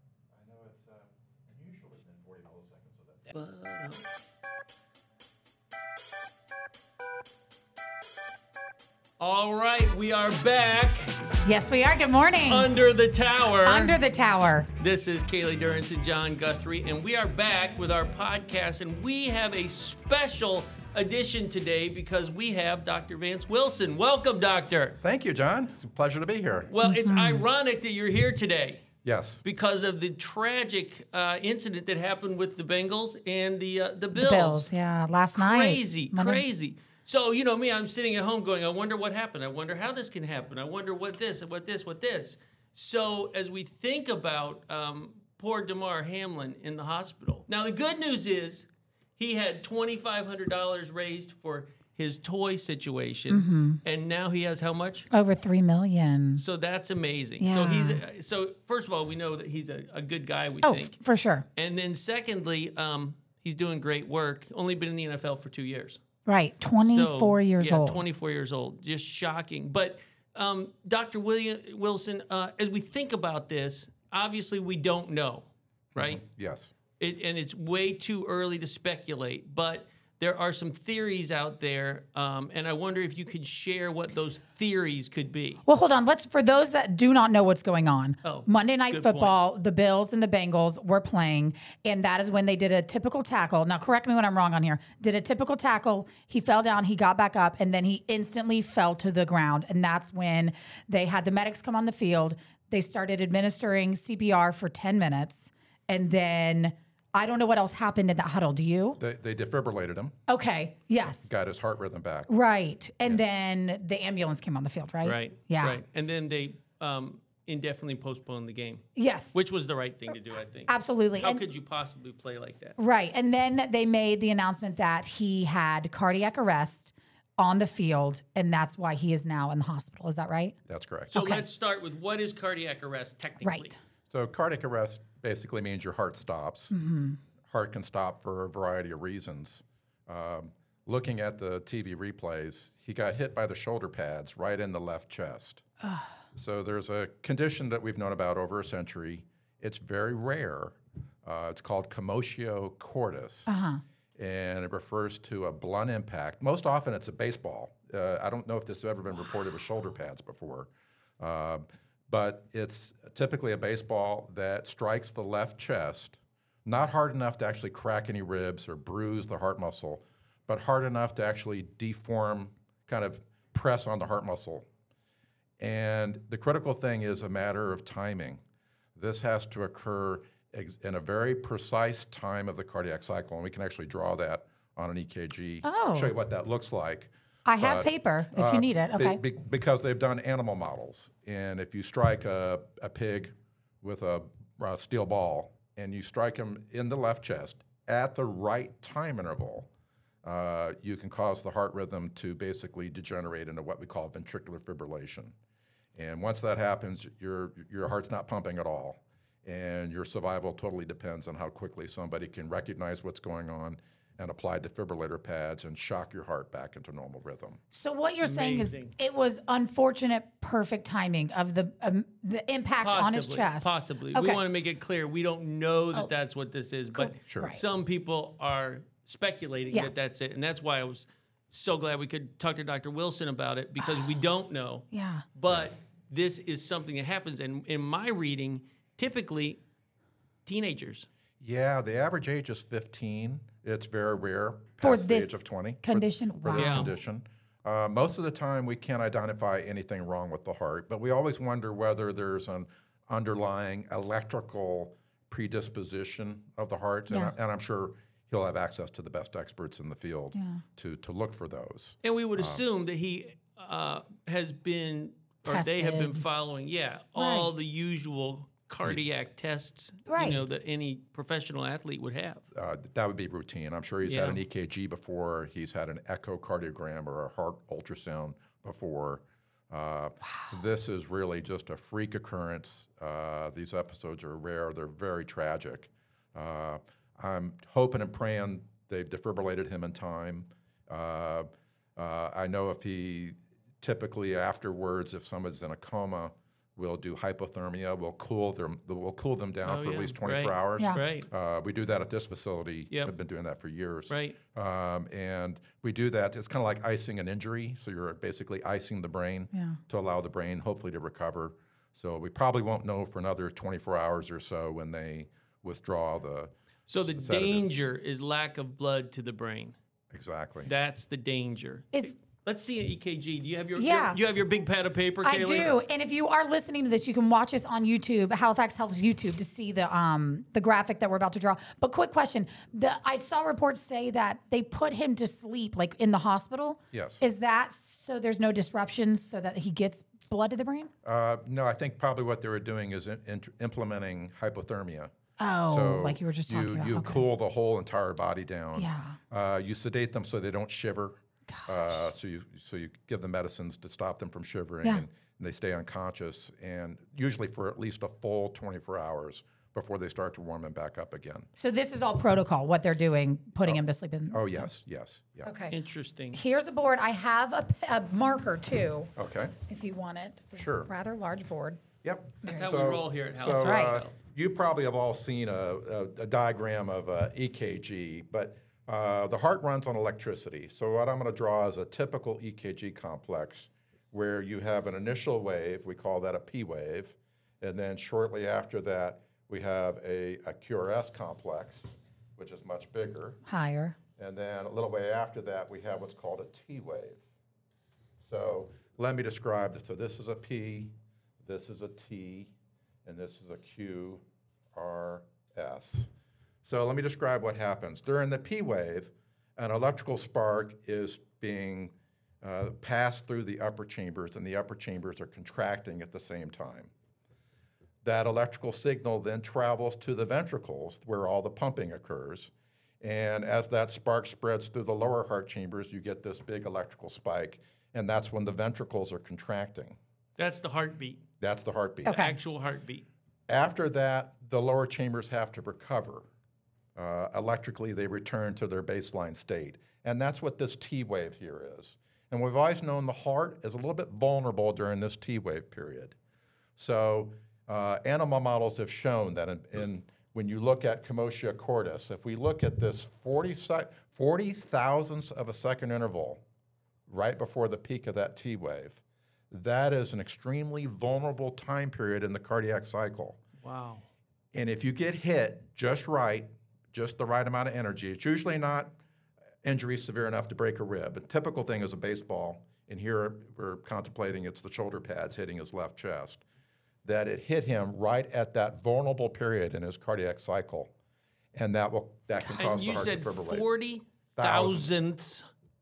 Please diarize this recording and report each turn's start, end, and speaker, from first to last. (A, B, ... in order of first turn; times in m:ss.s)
0:00.3-0:03.3 A
0:03.3-0:04.1 B
0:09.2-0:11.2 B
0:11.4-0:12.7 C
0:12.5-0:14.0 B
0:13.6-0:14.7 C
0:14.8-0:25.0 B
0:25.0-0:26.7 A
0:26.7-0:28.8 B
0:26.8-0:27.5 C
0:29.0-0:29.4 A
0:29.4-0:34.7 B
0:34.1-0:36.4 C
0:35.3-0:48.7 B
0:49.2-0:55.1 B
0:53.3-0:53.8 C
0:55.1-0:56.4 C
0:56.4-1:01.0 B
0:57.4-0:58.0 C
1:00.6-1:01.5 C
1:01.6-1:06.0 B
1:06.3-1:08.0 C
1:06.8-1:16.2 B
1:16.0-1:16.7 A
1:17.0-1:25.6 B
1:25.7-1:49.0 C
1:28.2-1:29.4 B
1:49.0-1:50.2 A
1:50.3-1:51.3 C
1:51.2-1:52.3 A
1:52.3-1:56.0 C
1:55.0-2:02.8 B
1:59.0-1:59.4 C
2:00.7-2:01.4 C
2:02.8-2:10.6 C
2:10.7-2:11.2 A
2:11.1-2:11.4 C
2:11.1-2:13.7 B
2:13.4-2:13.8 C
2:14.1-2:16.8 A
2:16.7-2:17.2 C
2:17.5-2:25.6 A
2:25.8-2:26.1 C
2:26.4-2:33.5 A
2:33.5-2:33.8 C
2:34.2-2:54.6 A
2:55.6-2:58.4 A
2:59.0-3:19.7 A
3:05.6-3:06.1 C
3:07.5-3:09.2 C
3:20.2-3:25.3 A
3:26.0-3:37.6 A
3:37.7-3:44.4 C
3:38.2-3:38.9 B
3:42.8-3:59.6 B
3:46.9-3:47.6 C
3:47.2-3:47.5 A
3:54.9-3:55.2 C
4:00.5-4:01.1 B
4:01.4-4:22.6 A
4:04.8-4:07.0 C
4:06.5-4:06.9 B
4:17.1-4:17.4 C
4:20.3-4:20.6 C
4:22.0-4:32.4 B
4:25.5-4:26.3 C
4:27.2-4:27.5 C
4:30.1-4:30.4 C
4:32.5-5:17.7 A
4:34.0-4:34.4 B
4:59.6-5:01.3 B
5:04.1-5:04.4 B
5:09.5-5:09.8 C
5:16.9-5:19.8 B
5:20.1-5:20.7 A
5:20.6-5:25.7 B
5:23.8-5:24.2 C
5:25.2-5:40.9 C
5:36.9-5:37.2 A
5:41.0-5:45.1 A
5:45.4-5:47.3 C
5:45.6-6:01.5 A
5:48.8-5:49.2 C
5:51.5-5:51.8 C
6:01.6-6:04.7 C
6:03.6-6:05.5 A
6:05.4-6:05.8 C
6:05.7-6:06.4 B
6:06.3-6:09.1 C
6:09.2-6:09.6 A
6:09.7-6:11.8 C
6:10.6-6:10.9 A
6:12.0-6:33.4 A
6:12.4-6:14.2 B
6:13.4-6:14.0 C
6:33.5-6:34.0 C
6:34.2-6:37.2 A
6:38.2-6:40.9 A
6:41.4-6:42.5 A
6:43.0-6:44.2 A
6:44.8-6:46.1 A
6:46.6-6:56.9 A
6:58.0-7:10.0 A
7:10.4-7:11.2 B
7:11.4-7:12.2 A
7:12.0-7:12.4 C
7:12.1-7:13.1 B
7:13.5-7:16.3 A
7:17.0-7:26.2 A
7:26.8-7:36.4 A
7:37.1-7:43.4 A
7:43.6-7:44.0 B
7:44.5-7:48.9 A
7:49.6-7:56.4 A
7:57.0-8:00.9 A
8:01.6-8:03.7 A
8:02.6-8:05.5 B
8:04.4-8:05.0 A